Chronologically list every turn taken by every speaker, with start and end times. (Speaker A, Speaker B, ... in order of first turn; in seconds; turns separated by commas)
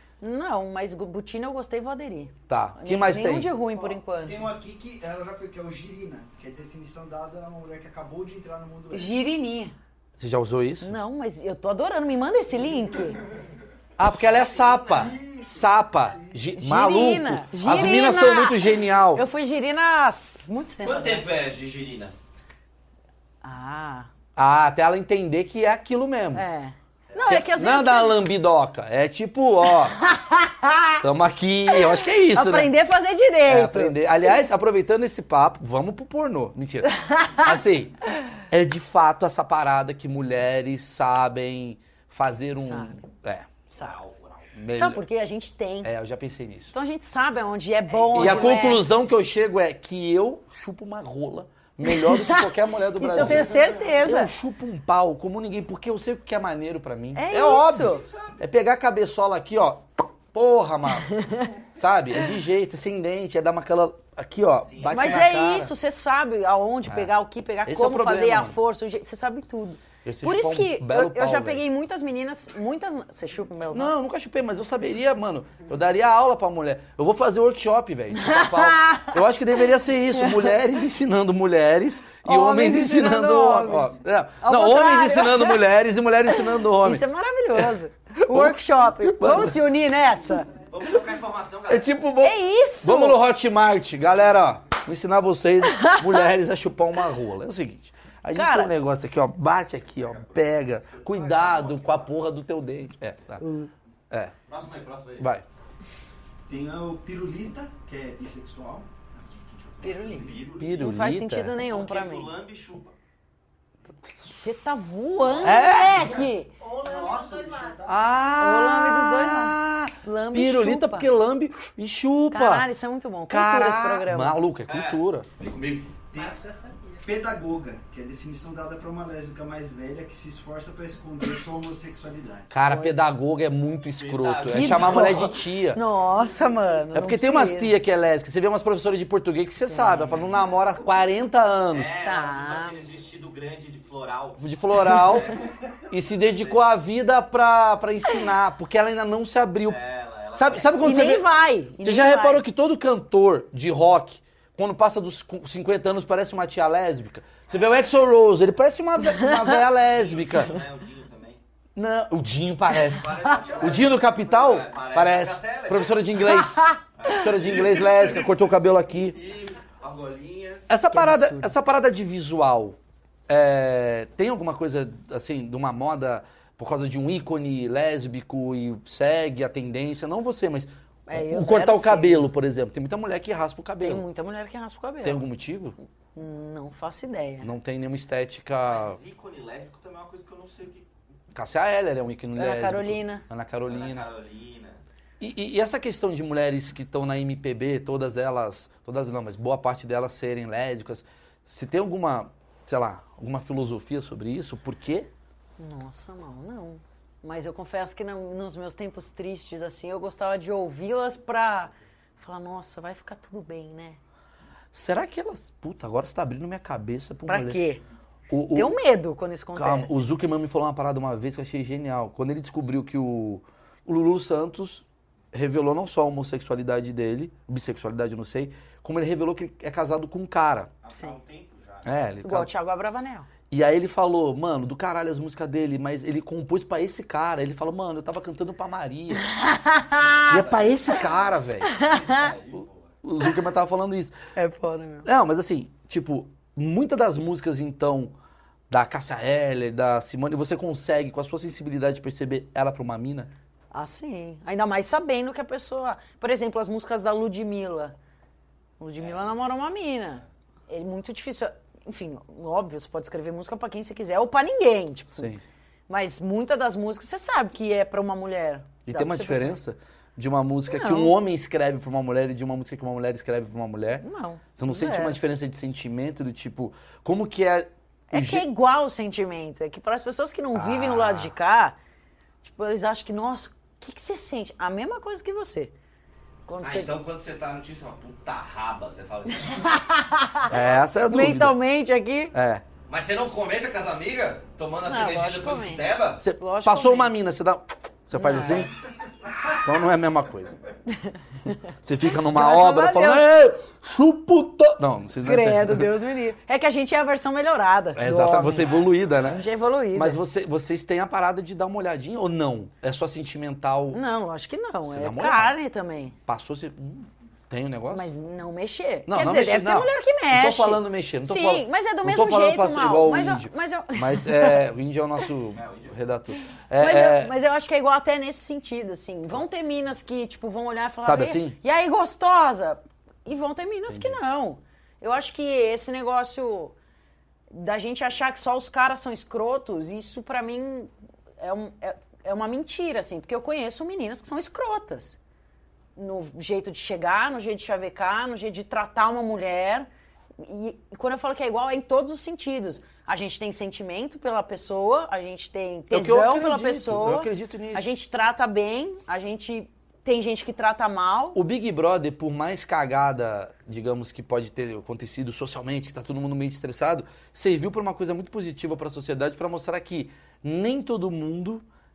Speaker A: 0.2-4.5, Speaker B: 2.5-3.6, Speaker C: 3.9-9.1, Speaker A: 8.9-9.8, Speaker B: 10.2-10.9, Speaker A: 10.8-13.2, Speaker B: 14.0-19.2, Speaker D: 14.2-14.8, Speaker C: 14.9-15.6, Speaker A: 16.6-21.4, Speaker D: 20.8-22.1, Speaker A: 23.4-24.1, Speaker B: 24.4-26.4, Speaker A: 26.3-28.3, Speaker B: 27.3-30.0, Speaker A: 30.0-31.0, Speaker B: 31.0-32.7, Speaker A: 31.7-34.3, Speaker B: 33.5-43.5, Speaker A: 36.9-37.5, Speaker A: 42.6-43.0, Speaker D: 43.7-44.5, Speaker B: 44.5-45.0, Speaker A: 44.7-45.9, Speaker B: 45.8-46.7, Speaker A: 46.7-48.9, Speaker D: 47.9-48.8, Speaker B: 48.1-61.1, Speaker A: 51.8-54.3, Speaker A: 57.1-58.0, Speaker D: 57.7-58.4, Speaker A: 61.1-61.5, Speaker B: 61.7-65.7, Speaker D: 64.6-65.3, Speaker A: 64.8-73.9, Speaker B: 66.9-67.1, Speaker B: 67.7-68.6, Speaker B: 70.0-71.6, Speaker B: 73.7-87.0, Speaker A: 78.1-79.2, Speaker A: 80.1-80.6, Speaker A: 82.2-85.7, Speaker A: 86.3-90.5, Speaker B: 87.5-89.6, Speaker D: 90.7-92.0, Speaker B: 91.7-103.5, Speaker A: 92.2-93.2, Speaker A: 95.7-96.2, Speaker A: 98.3-98.7, Speaker D: 100.0-102.1, Speaker A: 103.4-103.7, Speaker D: 104.5-105.3, Speaker B: 105.2-105.4, Speaker C: 106.5-110.3, Speaker A: 109.8-112.3, Speaker D: 110.0-110.8, Speaker B: 110.6-111.5, Speaker D: 111.6-112.9, Speaker B: 114.0-114.3, Speaker A: 114.3-116.5, Speaker B: 115.4-116.2, Speaker C: 115.6-117.9, Speaker E: 116.6-117.9, Speaker B: 117.8-122.7, Speaker A: 118.4-121.1, Speaker A: 122.3-124.4, Speaker B: 123.3-125.3, Speaker D: 124.7-126.0, Speaker C: 126.1-126.4, Speaker E: 126.1-127.0, Speaker C: 127.0-132.5, Speaker B: 132.5-135.8, Speaker A: 132.7-132.9, Speaker D: 133.9-135.3, Speaker A: 134.5-137.7, Speaker B: 136.9-141.9, Speaker A: 139.7-140.3, Speaker D: 141.7-145.5, Speaker A: 141.9-142.8, Speaker B: 144.4-145.3, Speaker B: 145.9-149.8, Speaker D: 146.2-146.6, Speaker D: 149.6-151.0, Speaker B: 150.3-151.2, Speaker A: 150.8-152.4, Speaker B: 151.8-160.6, Speaker D: 157.5-157.8, Speaker A: 159.2-159.6, Speaker D: 159.7-161.4, Speaker B: 161.8-169.2, Speaker D: 162.9-166.0, Speaker A: 166.2-166.8, Speaker D: 166.9-168.4, Speaker D: 169.1-170.7, Speaker B: 170.7-172.8, Speaker A: 170.9-171.5, Speaker B: 173.3-184.0, Speaker A: 181.1-182.3, Speaker A: 183.8-185.2, Speaker B: 185.0-185.8, Speaker A: 186.1-187.5, Speaker B: 187.4-189.0, Speaker D: 188.6-190.9, Speaker B: 191.3-194.1, Speaker A: 192.3-193.2, Speaker D: 193.7-194.8, Speaker B: 195.2-205.1, Speaker A: 205.6-214.0, Speaker B: 214.7-217.6, Speaker A: 217.3-217.8, Speaker B: 218.3-218.8, Speaker A: 218.5-220.0, Speaker B: 219.5-230.7, Speaker D: 230.8-231.9, Speaker A: 230.9-231.2, Speaker B: 231.8-232.5, Speaker A: 232.2-233.3, Speaker B: 233.5-239.3, Speaker A: 239.2-240.4, Speaker D: 240.0-242.9, Speaker B: 240.2-241.7, Speaker A: 241.6-242.3, Speaker B: 242.6-244.2, Speaker A: 244.3-245.1, Speaker B: 245.0-248.1, Speaker B: 248.7-253.3, Speaker A: 253.7-257.9, Speaker A: 258.8-265.3, Speaker D: 259.0-259.2, Speaker B: 265.1-265.4, Speaker A: 265.9-269.6, Speaker B: 268.9-274.0, Speaker A: 270.7-271.1, Speaker A: 274.0-275.2, Speaker B: 274.6-278.4, Speaker A: 278.1-281.8, Speaker B: 280.5-281.3, Speaker A: 282.4-285.7, Speaker A: 286.4-287.0, Speaker D: 286.6-289.7, Speaker A: 289.4-292.3, Speaker B: 290.5-291.6, Speaker B: 292.3-292.6, Speaker D: 292.9-296.2, Speaker A: 294.8-297.1, Speaker B: 296.2-298.7, Speaker A: 298.1-298.7, Speaker B: 299.5-300.6, Speaker A: 300.9-301.6, Speaker B: 301.8-305.9, Speaker A: 302.1-303.3, Speaker A: 305.2-310.2, Speaker B: 307.9-309.4, Speaker D: 308.6-309.2, Speaker B: 309.9-314.0, Speaker A: 313.9-316.2, Speaker B: 314.8-315.6, Speaker B: 316.3-318.1, Speaker A: 317.9-324.6, Speaker B: 319.1-327.3, Speaker D: 325.5-325.9, Speaker A: 326.8-336.7, Speaker B: 331.0-331.6, Speaker B: 333.9-334.2, Speaker A: 337.5-345.2, Speaker A: 345.9-361.4, Speaker B: 355.9-357.9, Speaker B: 361.3-371.6